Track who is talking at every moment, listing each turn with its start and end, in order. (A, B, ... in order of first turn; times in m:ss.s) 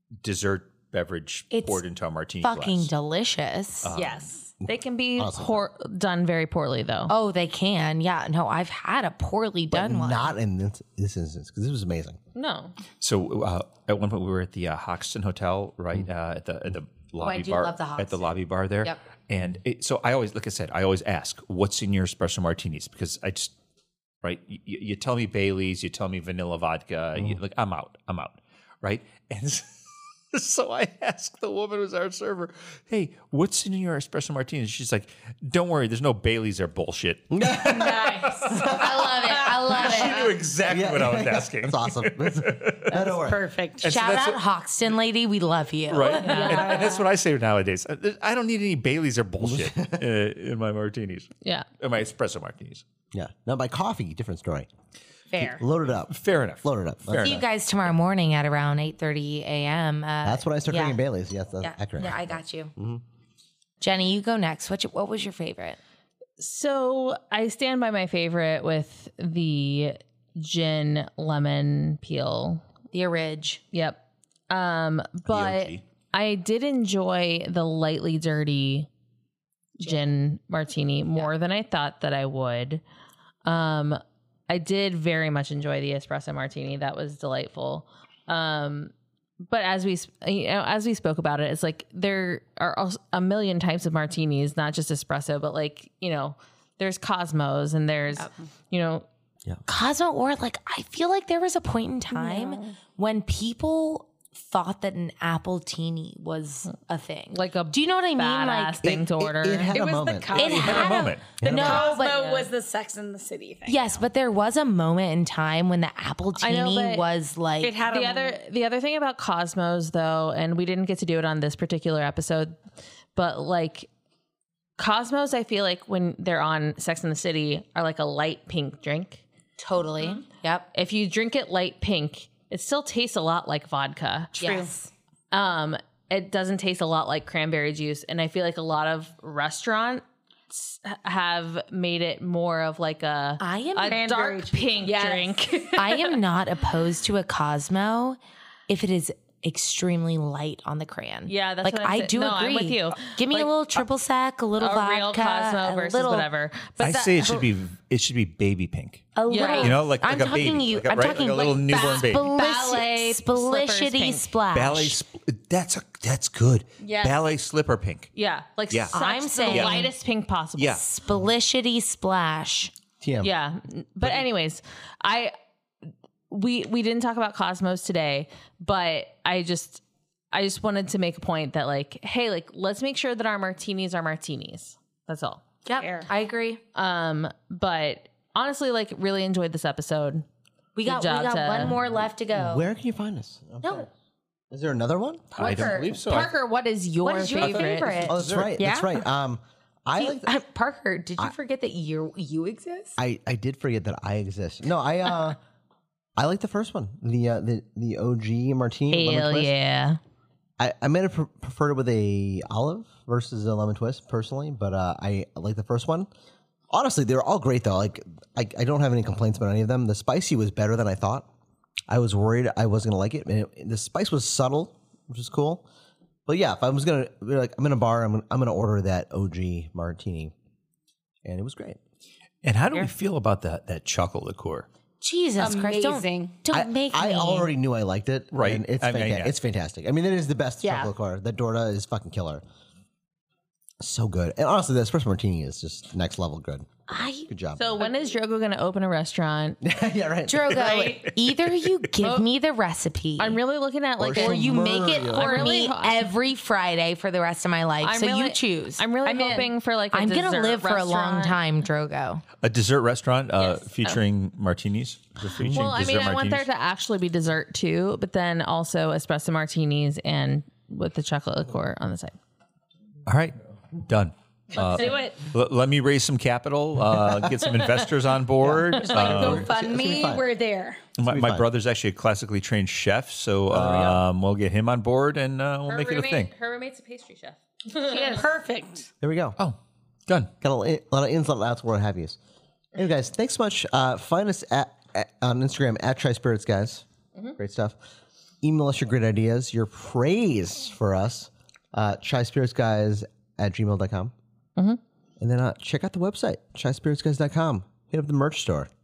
0:00.2-0:02.9 A
0:01.5-0:01.8 B
0:02.4-0:03.9 B
0:03.8-0:04.3 A
0:04.0-0:07.1 C
0:04.6-0:05.6 D
0:07.1-0:10.3 B
0:09.7-0:12.2 D
0:12.3-0:12.7 C
0:13.0-0:23.5 A
0:17.2-0:18.2 B
0:24.2-0:37.3 A
0:37.3-0:39.2 D
0:37.6-0:38.6 E
0:38.5-0:40.4 B
0:39.0-0:43.0 A
0:39.8-0:40.2 D
0:40.7-0:43.5 D
0:43.0-0:44.1 E
0:43.8-0:44.4 A
0:43.8-0:46.6 B
0:45.9-0:52.8 A
0:46.1-0:47.0 E
0:46.2-0:46.9 C
0:49.4-0:50.0 D
0:51.4-0:51.7 C
0:53.1-0:54.7 D
0:55.3-0:55.6 E
0:55.4-0:57.4 D
0:56.1-0:57.4 A
0:57.2-1:01.0 B
1:00.2-1:03.0 D
1:01.6-1:02.7 B
1:03.8-1:05.8 B
1:06.4-1:12.6 C
1:12.9-1:13.6 B
1:13.7-1:18.9 C
1:15.3-1:15.8 A
1:19.8-1:22.8 C
1:23.4-1:39.0 C
1:39.6-1:48.8 B
1:42.1-1:42.8 E
1:47.3-1:49.8 C
1:48.8-1:51.9 D
1:49.7-1:53.9 E
1:50.3-1:52.4 B
1:50.5-1:51.3 A
1:52.1-1:52.5 C
1:53.6-1:57.8 B
1:56.4-1:57.0 C
1:57.6-1:58.4 E
1:57.9-2:02.6 C
2:03.1-2:03.9 C
2:04.8-2:09.2 C
2:09.6-2:10.7 B
2:10.7-2:14.4 C
2:14.4-2:14.7 E
2:14.4-2:14.9 B
2:15.3-2:26.2 C
2:23.4-2:24.1 B
2:23.9-2:25.4 E
2:25.8-2:36.3 B
2:31.3-2:33.5 C
2:34.6-2:37.4 C
2:36.8-2:42.3 A
2:39.2-2:45.0 B
2:39.3-2:39.8 C
2:41.7-2:44.3 C
2:44.5-2:48.1 A
2:46.8-2:47.2 C
2:48.1-2:50.8 C
2:48.7-2:48.9 A
2:48.9-2:49.9 B
2:49.5-2:49.9 A
2:50.6-2:50.8 A
2:50.8-2:52.7 B
2:53.0-2:53.3 D
2:53.2-2:55.3 C
2:56.3-3:05.4 C
3:05.6-3:06.6 B
3:05.8-3:06.1 E
3:06.7-3:10.2 C
3:10.8-3:12.7 B
3:10.8-3:11.8 C
3:12.3-3:13.9 D
3:13.6-3:13.9 B
3:14.5-3:15.3 D
3:15.4-3:16.3 A
3:15.4-3:18.1 C
3:15.4-3:15.7 B
3:17.0-3:18.2 B
3:17.3-3:18.5 A
3:18.1-3:20.3 D
3:18.6-3:18.9 E
3:20.0-3:23.0 B
3:23.0-3:25.4 D
3:26.2-3:29.5 D
3:28.9-3:30.0 C
3:30.6-3:36.1 D
3:36.7-3:41.3 D
3:41.9-3:45.6 D
3:46.3-3:50.3 D
3:51.2-3:51.8 D
3:52.4-3:54.7 A
3:55.0-3:57.5 B
3:55.4-3:56.4 E
3:56.5-4:02.4 D
3:58.3-3:59.4 A
4:00.6-4:00.9 E
4:03.8-4:06.7 D
4:06.9-4:07.3 B
4:07.3-4:07.8 D
4:07.6-4:09.6 C
4:09.6-4:10.5 D
4:10.3-4:13.4 B
4:10.5-4:11.1 A
4:13.2-4:16.1 C
4:14.0-4:15.6 D
4:14.1-4:18.9 B
4:17.8-4:21.4 C
4:19.0-4:19.5 E
4:19.9-4:22.2 B
4:22.4-4:26.4 A
4:23.4-4:24.0 C
4:25.4-4:32.2 C
4:25.4-4:25.8 D
4:33.0-4:39.5 A
4:34.6-4:35.2 E
4:34.6-4:35.1 C
4:38.4-4:40.3 D
4:38.8-4:40.9 E
4:41.0-4:46.3 A
4:41.0-4:41.4 D
4:43.5-4:44.0 D
4:45.7-4:48.3 C
4:47.8-4:48.9 E
4:49.0-4:49.4 D
4:49.4-4:50.3 A
4:50.4-4:52.2 D
4:52.7-4:56.8 D
4:57.4-4:57.8 D
4:58.4-5:04.1 D
5:05.2-5:08.7 D